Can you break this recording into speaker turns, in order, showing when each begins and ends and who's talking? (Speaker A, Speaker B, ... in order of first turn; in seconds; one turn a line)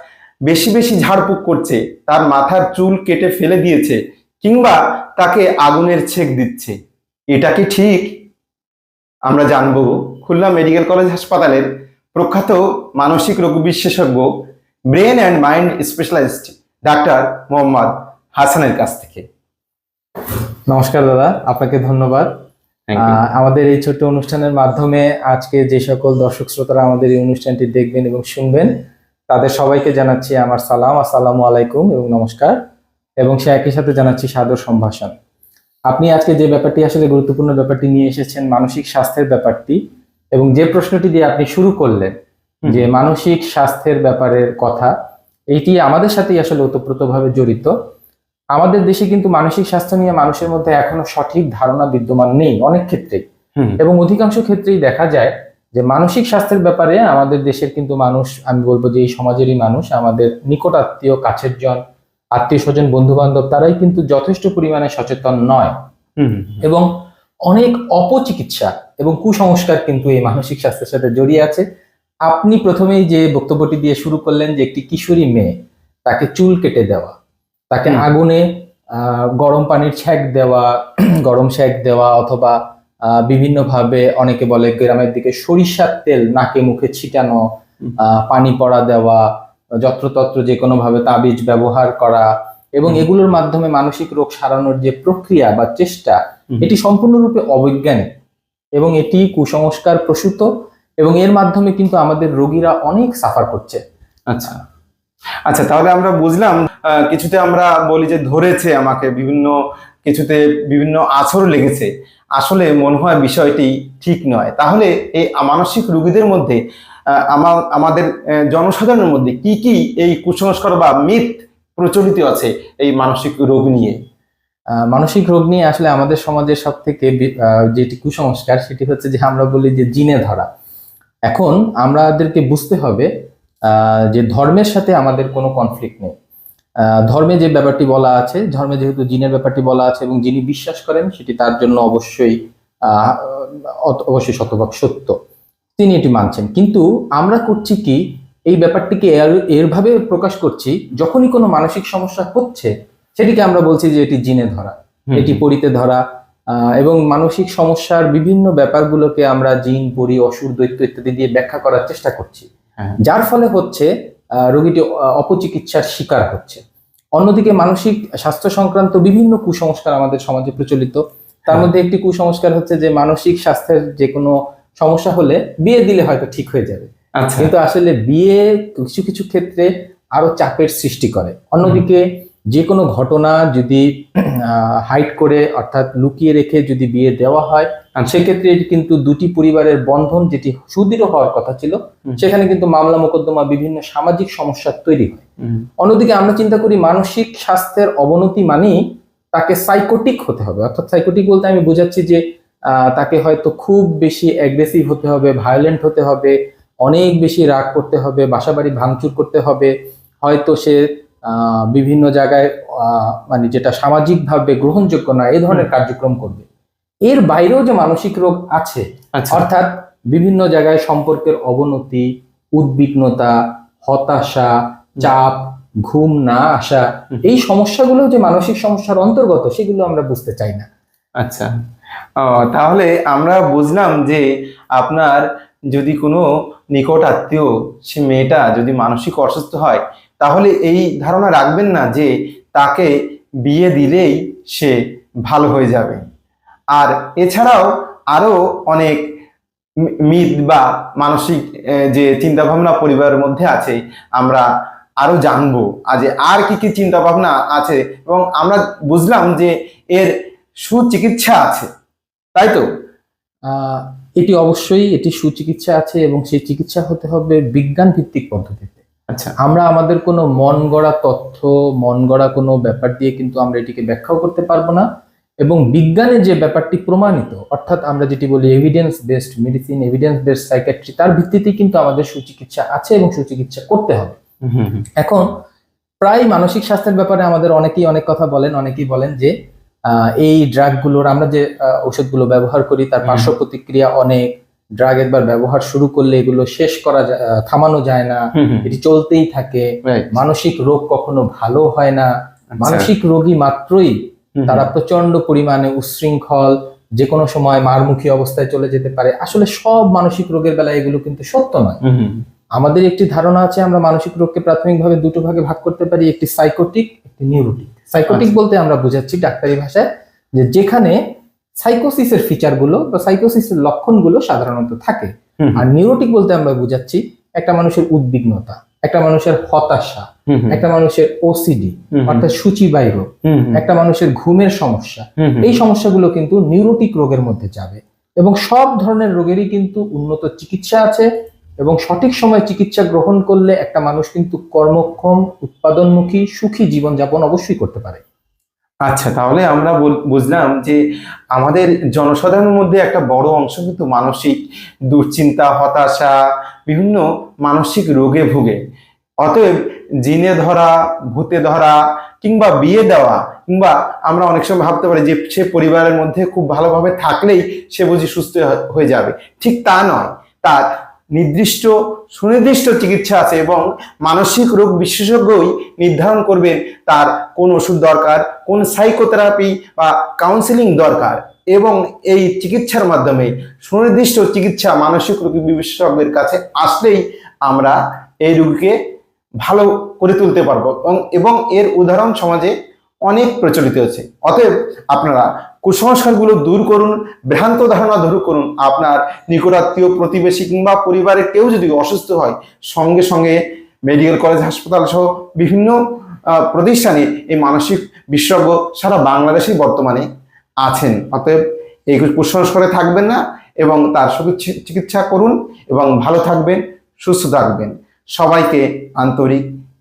Speaker A: 0.5-6.7
Speaker A: 7.3-8.1
Speaker A: 9.3-14.3
Speaker A: 14.9-19.2
Speaker B: 20.7-22.3
Speaker A: 22.9-23.2
Speaker B: 23.0-28.7
Speaker B: 29.3-32.6
Speaker B: 33.2-35.1
Speaker B: 35.9-39.8
Speaker B: 40.3-42.1
Speaker B: 42.7-44.9
Speaker B: 45.5-47.7
Speaker B: 48.5-53.2
Speaker B: 53.8-61.8
Speaker B: 62.4-65.7
Speaker A: 66.2-66.7
Speaker B: 67.5-71.6
Speaker B: 72.3-75.5
Speaker B: 76.0-77.1
Speaker B: 77.7-82.6
Speaker B: 83.1-87.4
Speaker B: 88.0-89.3
Speaker B: 89.8-98.1
Speaker B: 98.8-100.5
Speaker B: 101.0-103.8
Speaker A: 104.3-104.6
Speaker A: 105.5-116.6
Speaker A: 117.2-124.0
Speaker B: 124.9-130.5
Speaker B: 131.3-133.1
Speaker B: 133.7-136.1
Speaker B: 137.1-145.2
Speaker B: 145.8-156.0
Speaker A: 155.1-155.4
Speaker B: 156.8-162.5
Speaker B: 163.0-163.9
Speaker B: 164.5-166.6
Speaker B: 167.2-195.2
Speaker A: 177.2-177.5
Speaker A: 188.0-188.2
Speaker B: 195.8-198.8
Speaker B: 199.3-202.2
Speaker B: 202.7-209.7
Speaker B: 210.2-216.4
Speaker B: 217.1-223.3
Speaker A: 219.2-219.4
Speaker B: 223.8-230.7
Speaker A: 231.2-231.5
Speaker A: 232.2-234.2
Speaker A: 234.8-242.9
Speaker A: 243.4-246.0
Speaker A: 246.7-249.0
Speaker A: 250.1-254.4
Speaker A: 255.0-260.1
Speaker A: 260.6-261.7
Speaker A: 262.4-262.6
Speaker B: 263.5-268.8
Speaker A: 269.1-269.3
Speaker B: 269.4-274.8
Speaker B: 275.4-284.1
Speaker A: 284.5-284.9
Speaker B: 285.0-285.2
Speaker B: 286.0-289.3
Speaker B: 289.9-302.1
Speaker A: 293.0-293.3
Speaker A: 298.4-298.7
Speaker A: 299.8-300.2
Speaker A: 302.6-302.9
Speaker B: 302.6-303.9
Speaker A: 304.4-304.6
Speaker B: 304.5-311.8
Speaker A: 311.8-312.2
Speaker B: 312.6-319.9
Speaker B: 320.4-321.0
Speaker B: 321.6-341.1
Speaker A: 330.3-330.6
Speaker A: 331.9-332.2
Speaker A: 333.2-333.6
Speaker A: 335.2-335.6
Speaker B: 341.6-348.0
Speaker A: 348.9-350.8
Speaker A: 351.3-354.4
Speaker A: 354.9-356.1
Speaker A: 356.7-358.6
Speaker A: 359.2-388.8
Speaker A: 389.4-392.5
Speaker A: 393.0-405.8
Speaker A: 406.3-410.1
Speaker A: 410.6-411.4
Speaker A: 411.9-419.4